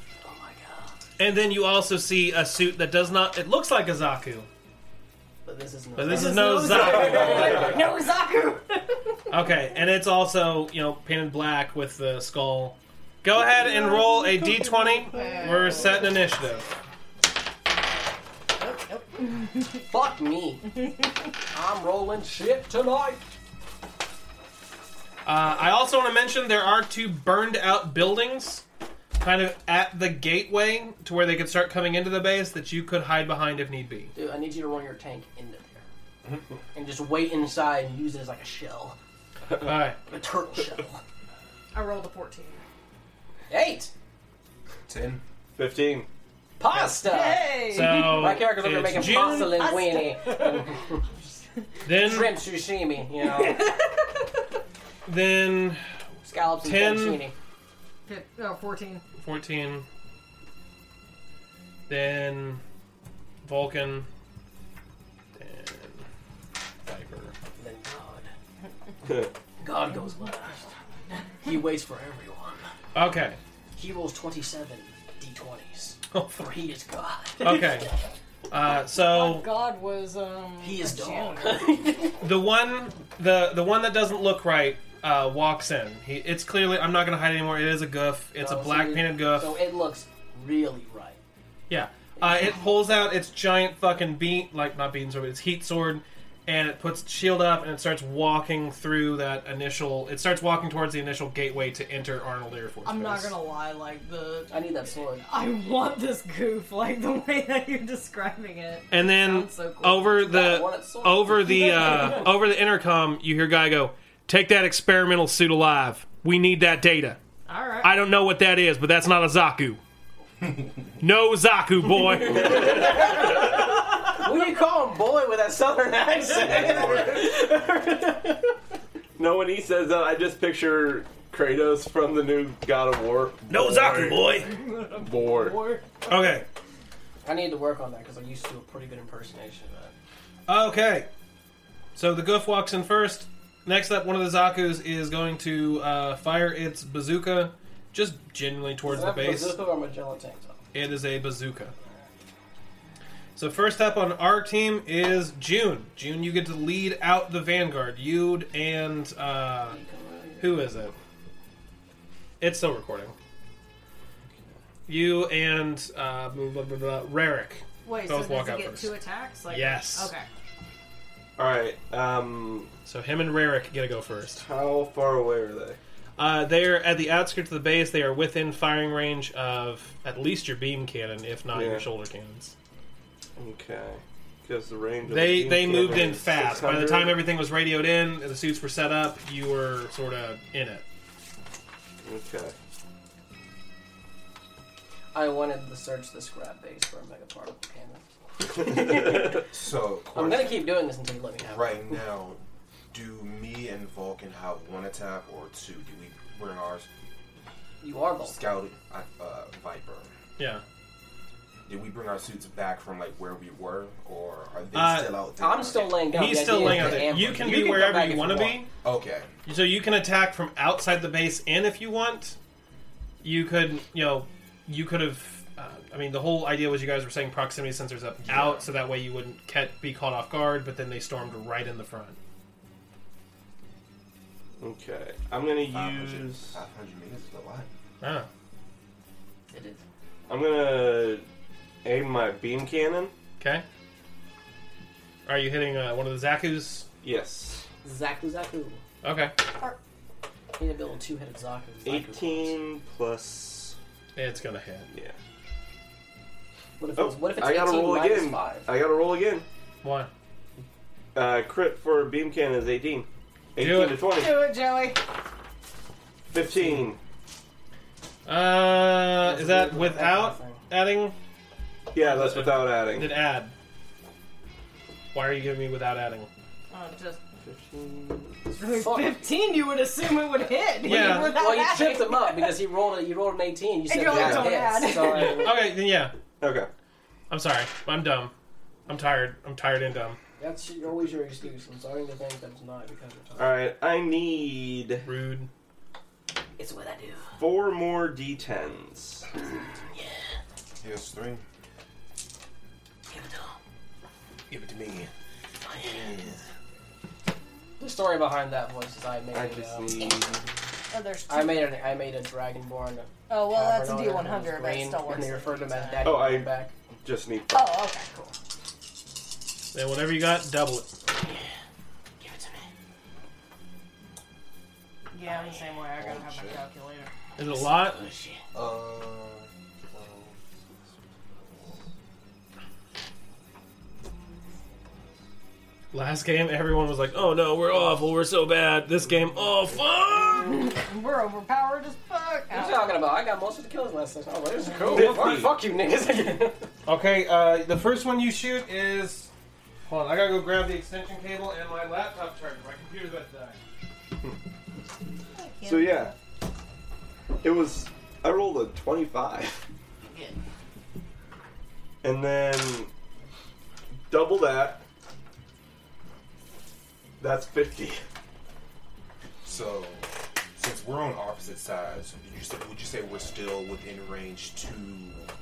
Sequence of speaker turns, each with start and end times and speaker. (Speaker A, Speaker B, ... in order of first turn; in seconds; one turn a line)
Speaker A: 0.2-0.9
Speaker B: 1.2-4.5
Speaker A: 5.4-7.8
Speaker B: 6.0-7.7
Speaker C: 6.1-9.3
Speaker B: 9.3-16.6
Speaker C: 13.5-16.5
Speaker A: 15.2-16.1
Speaker C: 18.6-19.8
Speaker A: 19.9-20.7
Speaker A: 21.5-23.2
Speaker B: 25.2-28.6
Speaker B: 29.2-34.1
Speaker A: 34.1-35.9
Speaker A: 36.7-39.0
Speaker B: 39.6-40.0
Speaker A: 40.0-41.0
Speaker C: 41.7-42.6
Speaker A: 43.5-43.9
Speaker D: 44.9-45.2
Speaker E: 45.6-46.1
Speaker A: 46.6-51.0
Speaker B: 46.7-49.6
Speaker C: 47.0-48.4
Speaker C: 49.3-50.9
Speaker B: 51.8-52.4
Speaker A: 51.9-53.7
Speaker C: 53.4-54.0
Speaker B: 55.0-55.8
Speaker A: 56.3-57.3
Speaker B: 56.6-57.2
Speaker C: 58.1-59.0
Speaker B: 59.2-59.9
Speaker B: 61.9-62.6
Speaker B: 63.4-64.1
Speaker B: 65.4-66.0
Speaker B: 66.8-67.3
Speaker A: 67.6-68.3
Speaker E: 69.0-69.3
Speaker A: 69.6-70.7
Speaker A: 71.4-72.7
Speaker B: 72.9-73.4
Speaker A: 73.8-77.8
Speaker B: 76.1-76.5
Speaker B: 77.4-77.9
Speaker B: 78.5-79.5
Speaker C: 78.9-81.8
Speaker A: 80.6-82.2
Speaker B: 82.2-89.5
Speaker A: 88.4-91.2
Speaker B: 91.7-103.3
Speaker C: 102.8-104.6
Speaker A: 104.5-105.2
Speaker C: 105.2-110.3
Speaker B: 108.9-117.2
Speaker A: 110.2-112.4
Speaker C: 117.5-117.9
Speaker B: 117.8-119.8
Speaker B: 121.0-122.9
Speaker A: 122.1-128.5
Speaker E: 129.2-134.3
Speaker B: 133.5-134.5
Speaker C: 134.4-135.8
Speaker E: 135.0-135.6
Speaker B: 136.0-136.4
Speaker A: 137.2-139.9
Speaker B: 140.5-141.1
Speaker B: 141.9-149.6
Speaker A: 148.8-150.6
Speaker B: 150.7-151.7
Speaker B: 153.3-159.8
Speaker A: 159.6-160.7
Speaker B: 160.4-160.9
Speaker B: 162.4-163.1
Speaker B: 164.9-168.9
Speaker C: 167.8-170.3
Speaker B: 169.5-170.1
Speaker E: 171.4-172.7
Speaker B: 172.8-174.4
Speaker E: 174.4-175.8
Speaker B: 176.2-182.5
Speaker E: 181.5-181.8
Speaker E: 183.3-187.2
Speaker B: 185.1-190.8
Speaker E: 192.0-192.5
Speaker A: 195.1-199.4
Speaker D: 199.5-200.7
Speaker A: 200.1-202.0
Speaker D: 201.4-206.9
Speaker A: 207.8-208.4
Speaker D: 208.2-210.1
Speaker B: 210.4-210.6
Speaker D: 211.7-216.0
Speaker B: 214.7-215.2
Speaker A: 215.4-218.6
Speaker B: 216.0-218.7
Speaker D: 216.6-217.2
Speaker D: 218.8-219.3
Speaker B: 219.4-222.4
Speaker B: 223.2-232.2
Speaker D: 228.2-228.6
Speaker E: 234.6-236.6
Speaker D: 235.7-237.7
Speaker B: 238.0-238.3
Speaker A: 239.5-239.8
Speaker E: 240.3-241.2
Speaker E: 241.8-243.1
Speaker B: 243.4-243.6
Speaker B: 245.2-246.8
Speaker E: 247.0-247.6
Speaker A: 247.8-248.8
Speaker B: 249.0-249.3
Speaker A: 250.6-252.5
Speaker E: 251.8-253.8
Speaker B: 254.2-254.9
Speaker E: 254.9-255.2
Speaker A: 256.8-258.7
Speaker E: 257.0-259.4
Speaker B: 259.8-260.1
Speaker E: 261.1-264.4
Speaker B: 263.6-264.0
Speaker C: 264.1-265.0
Speaker E: 266.3-267.0
Speaker B: 268.2-271.1
Speaker A: 269.2-270.6
Speaker E: 271.9-273.1
Speaker B: 272.0-273.5
Speaker B: 275.1-276.3
Speaker C: 276.7-277.2
Speaker E: 277.4-278.4
Speaker A: 278.4-279.2
Speaker C: 278.6-282.6
Speaker B: 280.8-281.4
Speaker A: 280.8-285.7
Speaker C: 283.9-285.6
Speaker E: 284.1-284.5
Speaker B: 285.0-286.1
Speaker E: 286.4-286.7
Speaker B: 287.3-288.3
Speaker B: 288.9-290.2
Speaker A: 290.4-293.5
Speaker E: 293.4-295.1
Speaker B: 295.1-295.5
Speaker A: 296.6-297.3
Speaker E: 297.4-299.3
Speaker A: 299.4-300.2
Speaker D: 300.8-301.4
Speaker A: 303.1-303.6
Speaker D: 304.5-305.1
Speaker A: 305.6-306.1
Speaker D: 305.8-306.4
Speaker A: 307.8-310.2
Speaker E: 309.3-310.5
Speaker C: 310.9-311.9
Speaker A: 311.3-316.7
Speaker C: 313.3-316.2
Speaker E: 316.0-317.8
Speaker C: 317.5-318.3
Speaker B: 319.7-320.9
Speaker A: 322.2-322.6
Speaker C: 325.1-327.1
Speaker A: 325.2-325.7
Speaker D: 326.0-326.6
Speaker B: 327.4-328.0
Speaker A: 327.6-328.4
Speaker D: 328.5-330.4
Speaker B: 335.9-340.7
Speaker C: 340.5-343.0
Speaker A: 342.5-346.7
Speaker E: 344.9-345.5
Speaker B: 346.9-349.3
Speaker B: 349.9-353.6
Speaker C: 355.4-356.1
Speaker E: 355.6-356.1
Speaker E: 357.4-359.6
Speaker C: 360.0-360.4
Speaker E: 362.0-362.9
Speaker E: 364.1-364.8
Speaker E: 367.2-368.0
Speaker D: 369.4-375.2